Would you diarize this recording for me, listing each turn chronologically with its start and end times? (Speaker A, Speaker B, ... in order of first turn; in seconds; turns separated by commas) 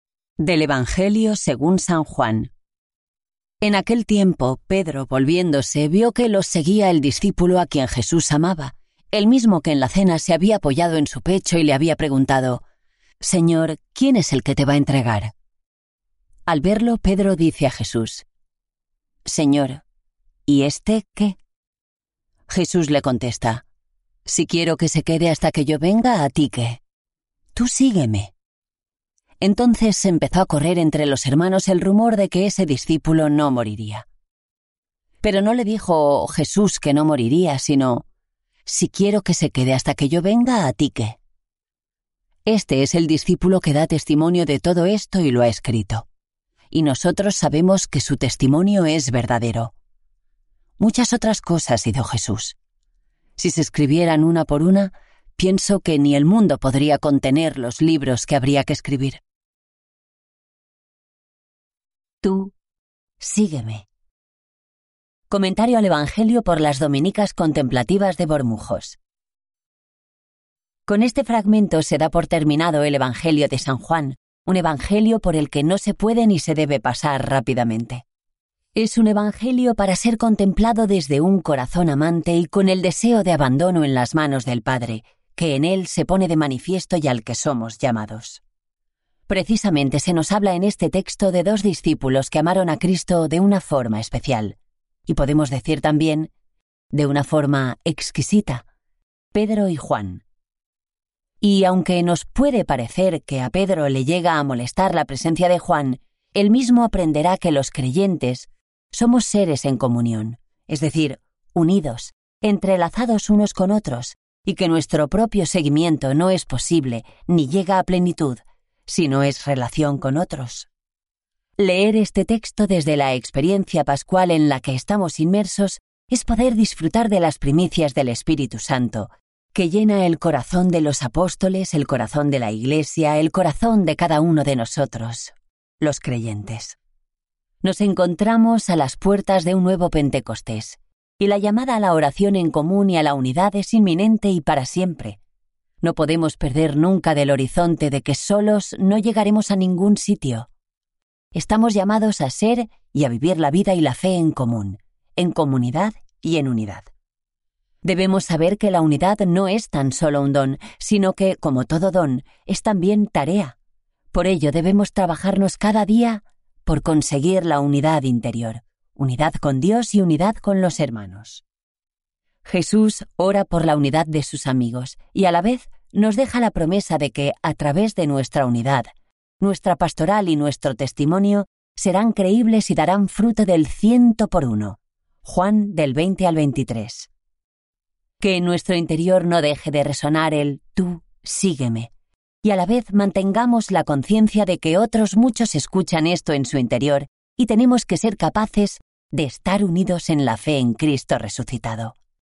Speaker A: 0.4-2.5, Speaker A: 3.6-12.6, Speaker A: 13.2-15.3, Speaker A: 16.5-18.2, Speaker A: 19.2-19.8, Speaker A: 20.5-21.4, Speaker A: 22.5-23.6, Speaker A: 24.2-26.8, Speaker A: 27.5-28.3, Speaker A: 29.4-34.0, Speaker A: 35.2-38.0, Speaker A: 38.6-41.2, Speaker A: 42.5-46.1, Speaker A: 46.7-49.7, Speaker A: 50.8-52.5, Speaker A: 53.4-59.2, Speaker A: 62.2-62.5, Speaker A: 63.2-63.9, Speaker A: 65.3-69.0, Speaker A: 70.9-78.0, Speaker A: 78.7-88.4, Speaker A: 89.3-96.3, Speaker A: 96.9-98.6, Speaker A: 99.3-100.2, Speaker A: 101.4-120.7, Speaker A: 121.6-136.8, Speaker A: 137.6-145.2, Speaker A: 145.8-150.5, Speaker A: 151.3-156.9, Speaker A: 157.8-163.6, Speaker A: 164.1-171.4, Speaker A: 172.4-178.9, Speaker A: 179.4-187.1, Speaker A: 188.2-191.9, Speaker A: 192.4-201.9